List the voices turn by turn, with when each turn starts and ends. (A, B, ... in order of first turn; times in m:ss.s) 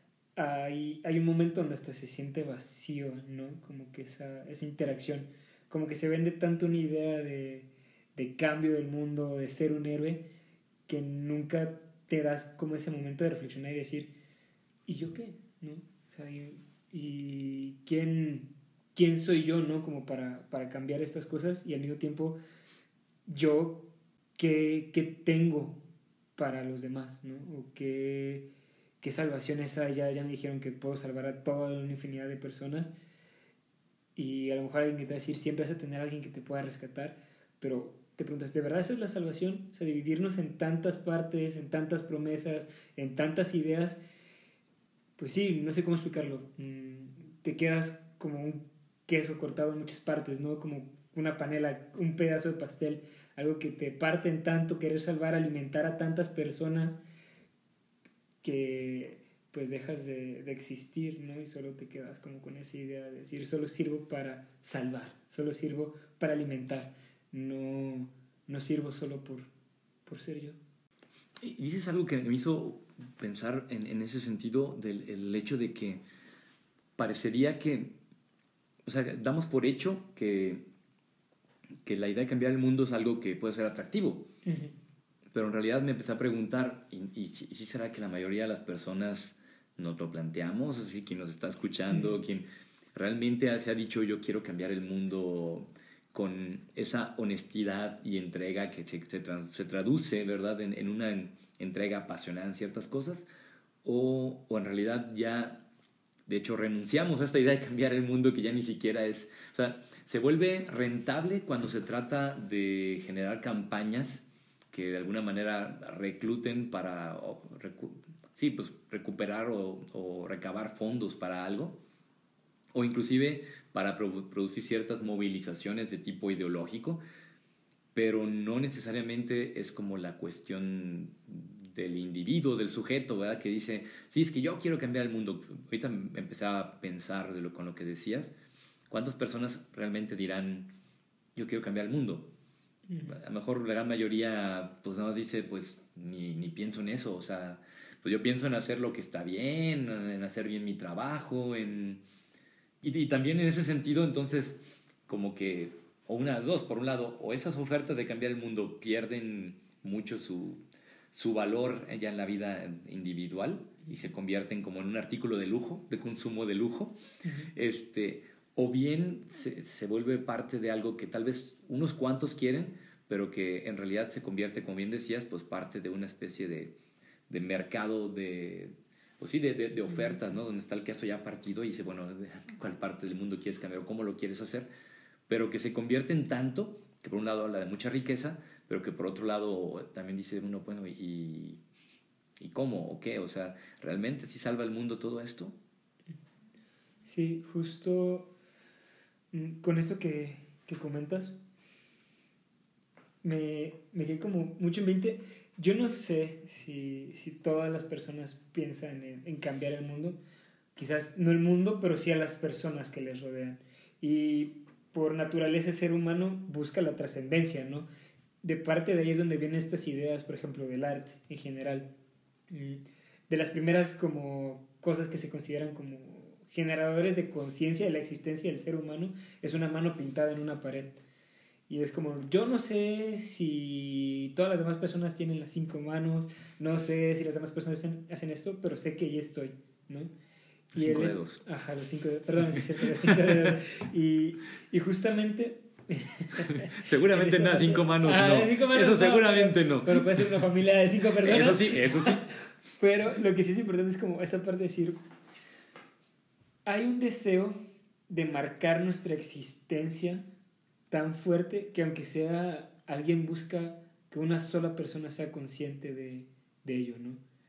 0:00.4-0:10.2 A
0:10.9-0:14.1 A
0:14.9-0:22.4 A
0:23.3-0:25.8 A
0:26.4-0:28.5 A
0:29.0-0:32.9 A
0:34.2-0:44.0 A
0:45.2-0:57.0 A
0:58.4-1:09.5 A
1:10.0-1:10.6 A
1:11.4-1:16.0 B
1:17.0-1:18.0 B
1:18.8-1:20.7 B
1:21.8-1:24.3 B
1:24.4-1:24.7 A
1:25.3-1:43.3 B
1:43.8-1:45.6 B
1:46.3-2:01.8 B
2:02.7-2:07.0 B
2:07.9-2:18.3 B
2:18.9-2:20.7 B
2:21.4-2:22.3 B
2:22.9-2:23.2 A
2:23.0-2:32.0 B
2:32.8-2:40.6 B
2:41.1-2:47.0 B
2:47.2-2:47.5 A
2:47.5-2:56.8 B
2:57.3-3:04.7 B
3:05.3-3:11.6 B
3:12.4-3:15.6 B
3:17.0-3:18.3 A
3:19.3-3:21.4 A
3:23.2-3:30.2 A
3:30.8-3:37.9 A
3:38.4-3:41.9 A
3:42.5-3:51.0 A
3:51.7-4:00.1 A
4:00.7-4:01.4 B
4:00.7-4:15.0 A
4:02.6-4:03.6 B
4:06.5-4:10.4 B
4:11.2-4:12.2 B
4:16.7-4:17.6 A
4:18.1-4:20.2 A
4:20.9-4:27.2 A